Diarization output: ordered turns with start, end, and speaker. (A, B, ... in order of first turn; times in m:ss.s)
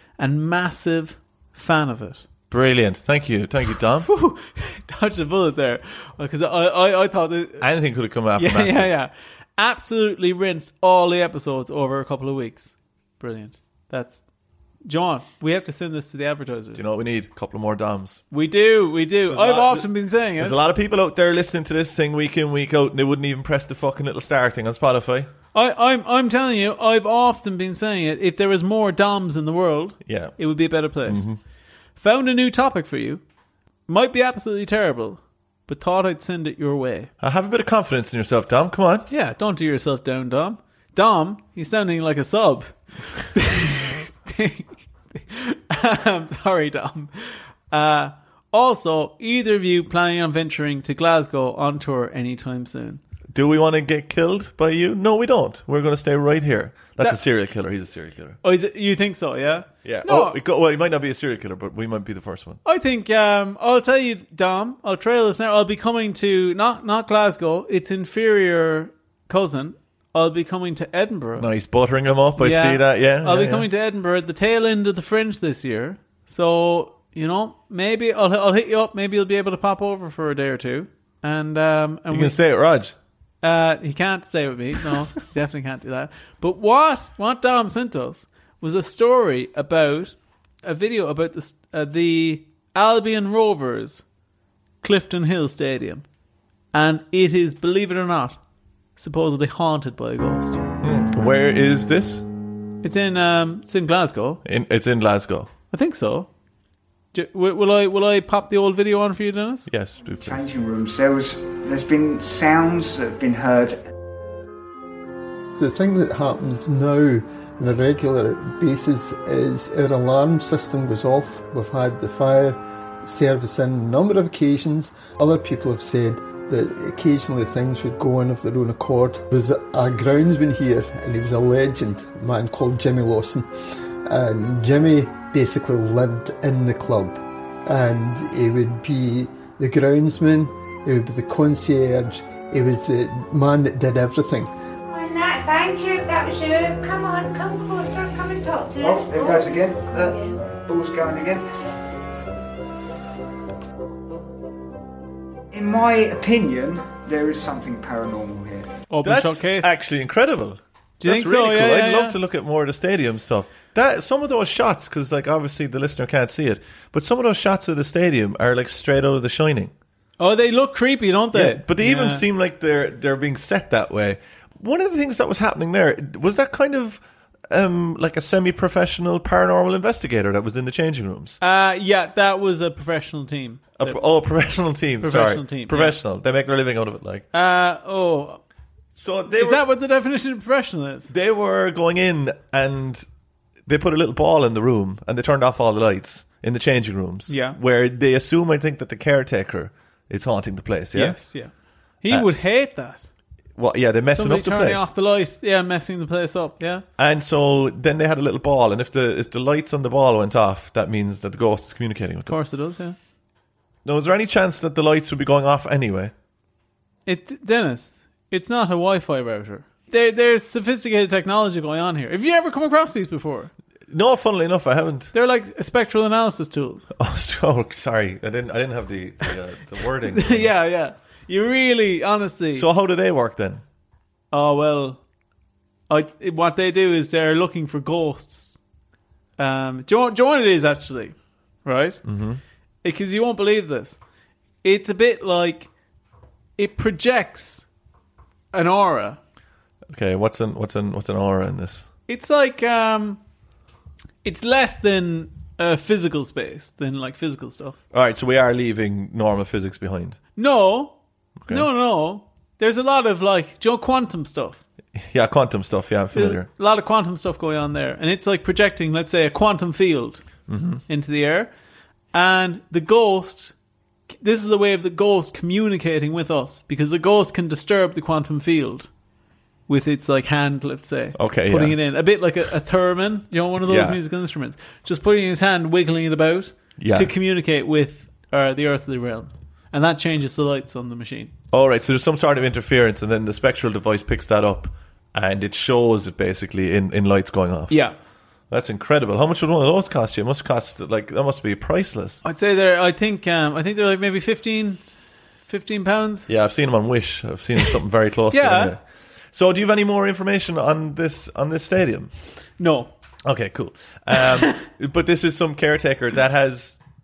0:00.2-0:02.2 A
0:02.5-0:04.1 B
0:04.0-0:07.7 A
0:07.6-0:08.9 B
0:08.4-0:14.2 A
0:14.8-0:16.8 A
0:16.8-0:18.2 B
0:18.3-0:20.6 A
0:19.3-0:19.9 B
0:20.4-0:25.3 B
0:25.5-0:31.3 A
0:30.1-0:30.4 B
0:31.0-0:31.4 B
0:32.0-0:33.2 A
0:33.9-0:37.1 A
0:37.2-0:39.1 B
0:39.1-0:53.0 A
0:53.3-0:58.4 B
0:58.4-1:00.4 A
0:59.8-1:02.6 B
1:02.6-1:11.5 A
1:11.4-1:13.7 B
1:12.4-1:22.4 A
1:22.1-1:23.0 B
1:23.4-1:34.0 A
1:34.8-1:36.0 A
1:36.7-1:38.4 A
1:39.0-1:40.6 A
1:40.8-1:42.3 B
1:42.8-1:44.4 A
1:44.4-1:45.5 B
1:45.7-1:46.3 A
1:47.1-1:49.7 A
1:49.7-1:50.5 B
1:50.2-1:53.8 C
1:55.6-2:13.5 D
2:14.1-2:24.5 D
2:24.9-2:30.4 E
2:28.8-2:31.5 C
2:35.5-2:38.7 C
2:38.9-2:39.7 A
2:39.0-2:49.7 B
2:41.0-2:42.2 A
2:50.2-2:52.2 A
2:51.3-3:01.4 B
3:01.4-3:04.0 A
3:03.8-3:07.3 B
3:05.0-3:06.0 A
3:07.3-3:08.4 A
3:09.0-3:09.6 B
3:09.3-3:11.1 A
3:11.1-3:13.0 B
3:13.7-3:21.2 B
3:17.3-3:17.6 A
3:20.9-3:23.1 A
3:23.6-3:24.9 B
3:24.1-3:26.8 A
3:27.0-3:32.4 B
3:32.3-3:33.0 A
3:33.8-3:36.1 B
3:37.1-3:43.5 A
3:43.9-3:45.1 B
3:45.1-3:46.9 A
3:47.0-3:50.5 B
3:50.0-3:52.7 A
3:52.5-3:53.6 B
3:54.3-3:55.0 A
3:55.9-3:58.6 A
3:59.4-4:02.0 A
4:02.0-4:02.4 B
4:02.8-4:04.0 A
4:04.6-4:05.7 A
4:06.6-4:07.7 A
4:08.5-4:09.2 A
4:09.9-4:11.9 B
4:12.1-4:13.2 A
4:14.2-4:17.8 A
4:17.9-4:20.2 B
4:20.4-4:21.0 A
4:21.4-4:21.7 B
4:21.5-4:24.6 A
4:25.0-4:26.5 B
4:26.1-4:30.2 A
4:30.5-4:30.8 B
4:30.9-4:31.5 A
4:32.1-4:33.6 A
4:34.2-4:38.9 A
4:39.7-4:51.3 A
4:41.2-4:41.8 B
4:43.6-4:44.0 B
4:46.8-4:47.1 B
4:51.5-4:57.8 B
4:57.7-4:58.0 A
4:58.5-5:02.2 B
5:02.2-5:04.8 A
5:05.5-5:06.3 A
5:06.3-5:08.8 B
5:08.3-5:08.8 A
5:09.3-5:12.1 B
5:12.6-5:12.9 A
5:13.3-5:16.8 B
5:14.2-5:14.5 A